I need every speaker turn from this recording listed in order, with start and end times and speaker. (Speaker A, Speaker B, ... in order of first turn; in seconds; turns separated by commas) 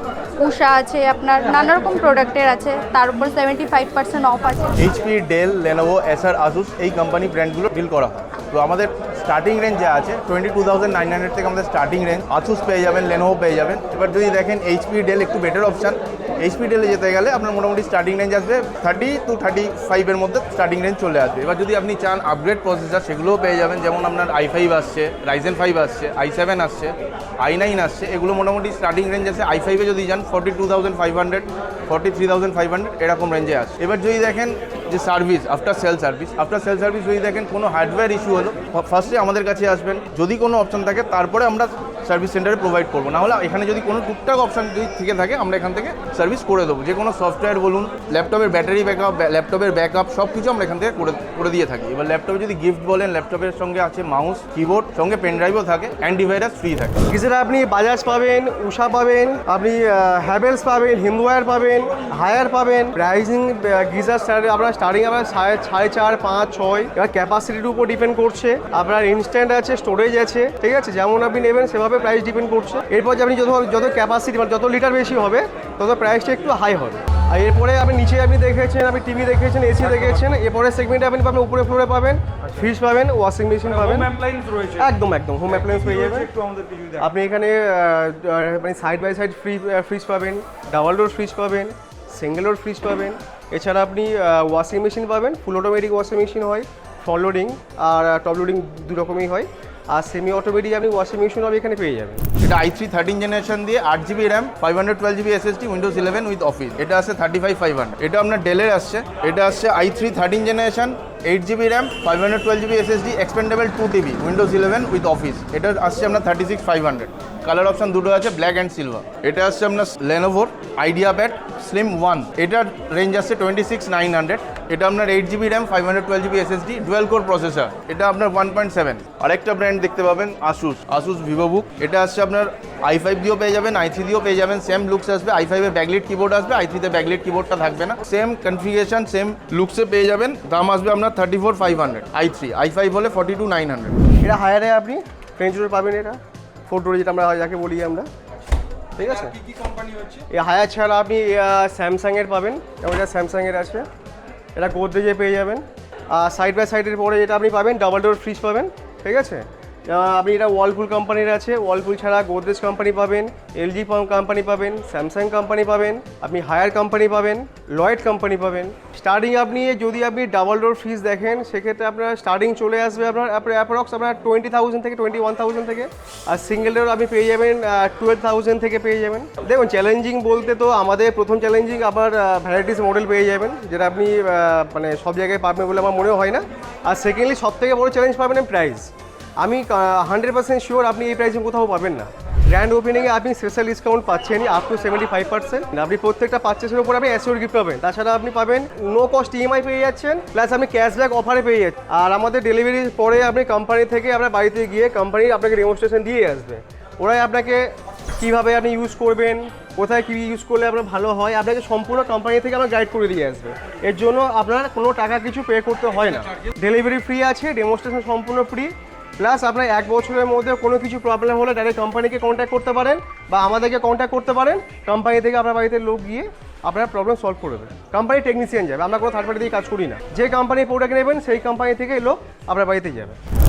Speaker A: 0.4-4.7, Speaker B: 4.8-57.0, Speaker C: 57.1-84.1, Speaker D: 79.8-80.4, Speaker D: 83.6-87.1, Speaker C: 84.8-86.3, Speaker C: 87.0-102.2, Speaker B: 102.4-144.0, Speaker C: 144.2-148.1, Speaker C: 149.0-149.3, Speaker D: 149.0-150.2, Speaker C: 150.3-153.9, Speaker C: 154.6-233.2, Speaker D: 216.0-216.3